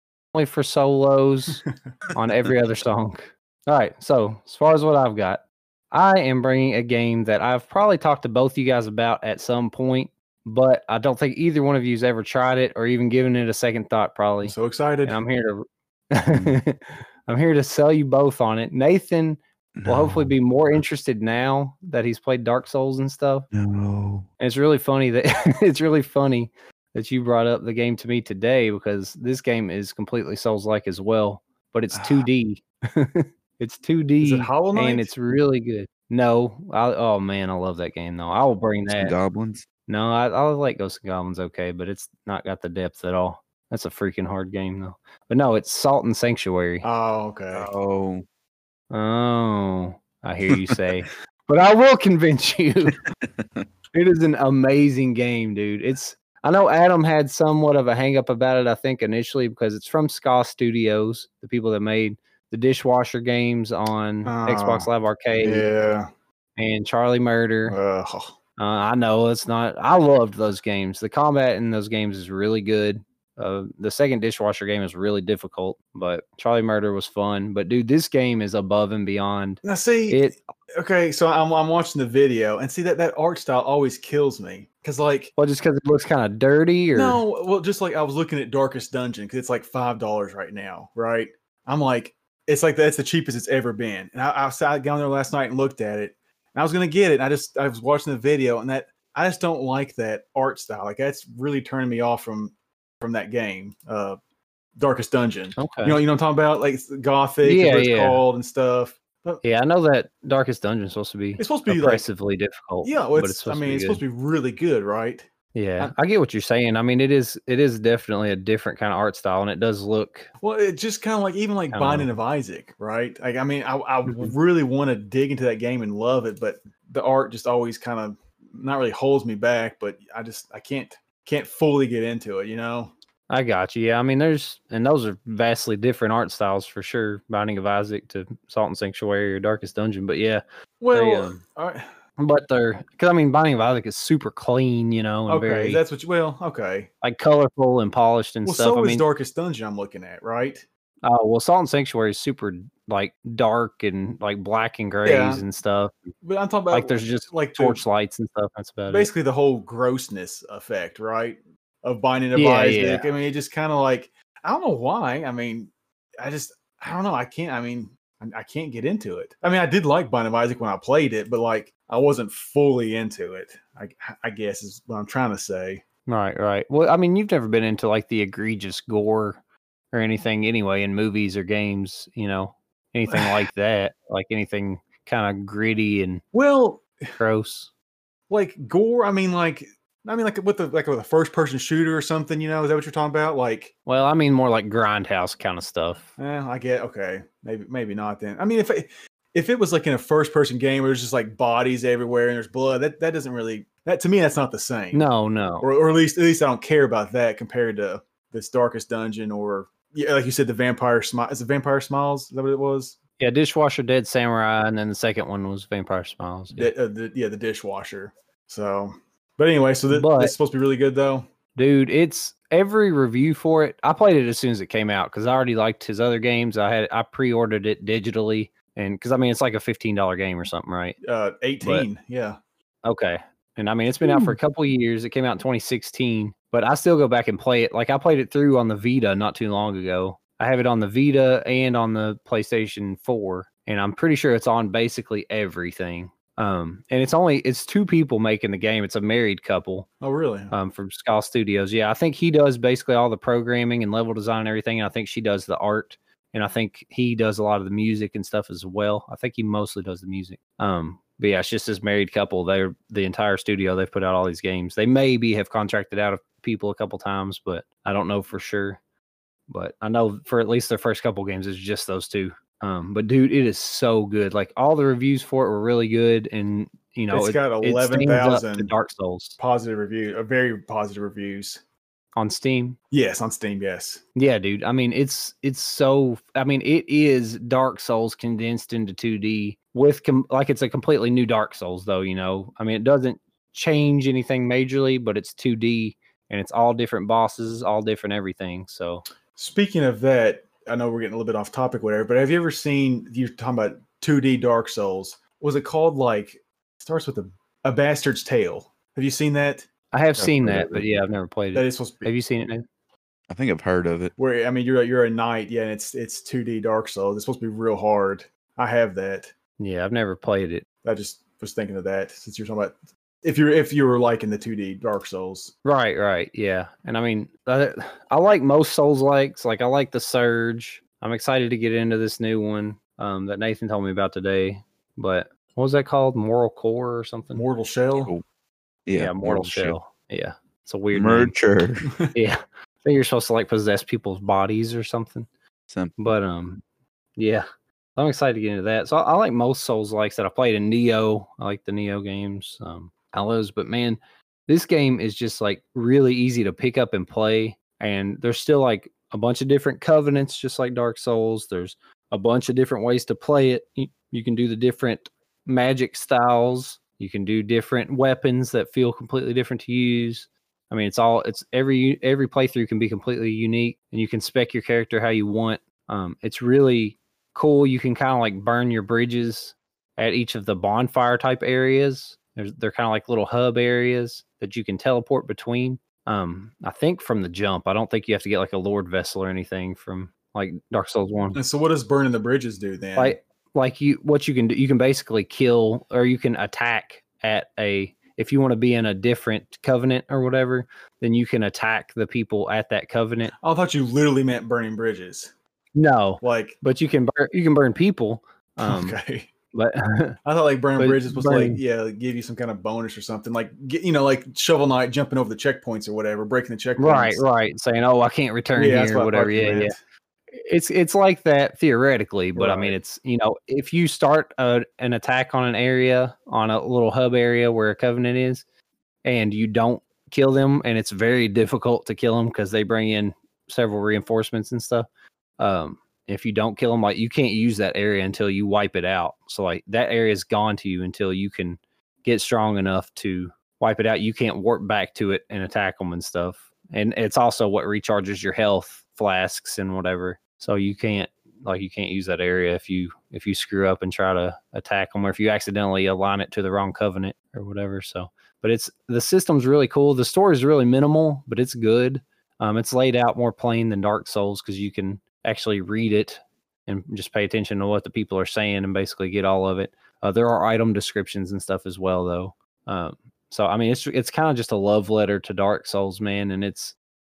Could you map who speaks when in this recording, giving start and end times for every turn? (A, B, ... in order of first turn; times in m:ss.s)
0:00.3-0:23.5 A
0:14.4-0:15.2 B
0:16.3-0:16.6 C
0:19.8-0:20.3 C
0:23.5-0:24.3 C
0:24.4-0:39.1 A
0:31.9-0:32.3 C
0:34.2-0:35.1 B
0:38.9-0:39.6 C
0:39.9-0:46.8 A
0:46.8-0:47.7 B
0:47.5-0:48.2 C
0:48.9-0:53.0 A
0:50.5-0:50.8 C
0:53.2-0:53.6 C
0:53.9-1:05.7 A
1:04.2-1:06.1 B
1:06.6-1:07.8 A
1:07.7-1:08.3 B
1:08.6-1:20.4 A
1:19.6-1:20.2 B
1:20.7-1:25.3 B
1:25.4-1:27.2 A
1:26.9-1:44.2 B
1:44.8-1:49.4 B
1:45.6-1:46.0 A
1:47.4-1:48.2 A
1:49.4-1:54.0 A
1:51.4-1:52.0 B
1:52.8-1:55.2 B
1:55.5-2:00.3 A
2:00.4-2:12.9 B
2:01.7-2:02.1 A
2:04.1-2:04.3 A
2:13.3-2:21.4 A
2:20.8-2:21.9 B
2:22.2-2:25.8 A
2:25.3-2:26.9 B
2:27.0-2:29.0 A
2:28.4-2:30.6 B
2:31.0-2:35.9 A
2:35.0-2:35.4 B
2:36.2-2:37.8 B
2:36.7-2:39.1 A
2:38.9-2:55.8 B
2:42.3-2:43.1 A
2:56.1-2:59.4 A
2:59.9-3:06.2 A
3:03.1-3:03.5 B
3:06.3-3:07.1 B
3:07.2-3:07.7 A
3:08.3-3:13.7 B
3:13.8-3:16.1 A
3:16.2-3:25.1 B
3:24.9-3:25.7 A
3:25.6-3:33.0 B
3:33.2-3:36.7 A
3:36.6-3:41.2 B
3:39.9-3:40.3 A
3:41.6-3:51.0 A
3:51.0-3:52.4 B
3:51.6-3:51.9 A
3:52.8-4:09.9 A
3:54.0-3:54.4 B
4:10.0-4:10.5 B
4:10.5-4:28.8 A
4:29.5-4:39.4 A
4:37.1-4:38.7 B
4:39.4-4:41.6 B
4:42.2-4:42.8 A
4:42.9-4:44.0 B
4:44.1-4:59.0 A
4:59.4-5:09.7 B
5:09.9-5:12.6 A
5:10.2-5:11.0 C
5:11.5-5:12.1 B
5:13.3-5:14.1 C
5:14.2-5:19.3 B
5:19.6-5:20.6 A
5:20.8-5:25.5 B
5:25.6-5:37.4 A
5:37.3-5:38.1 B
5:37.9-5:38.2 C
5:38.9-5:39.7 C
5:39.0-5:41.3 A
5:40.9-5:41.9 C
5:42.1-5:45.3 A
5:45.7-5:46.0 C
5:46.0-5:46.6 A
5:47.2-6:31.4 A
6:31.3-6:33.2 B
6:33.0-6:43.3 A
6:43.4-6:45.3 B
6:45.7-6:49.0 A
6:46.2-6:46.6 B
6:48.6-6:49.3 B
6:49.5-6:50.2 A
6:50.2-6:57.2 B
6:50.8-6:51.6 A
6:56.8-6:59.7 A
6:58.5-6:59.8 B
7:00.3-7:08.4 A
7:02.4-7:02.8 B
7:09.0-7:14.9 A
7:15.4-7:56.8 A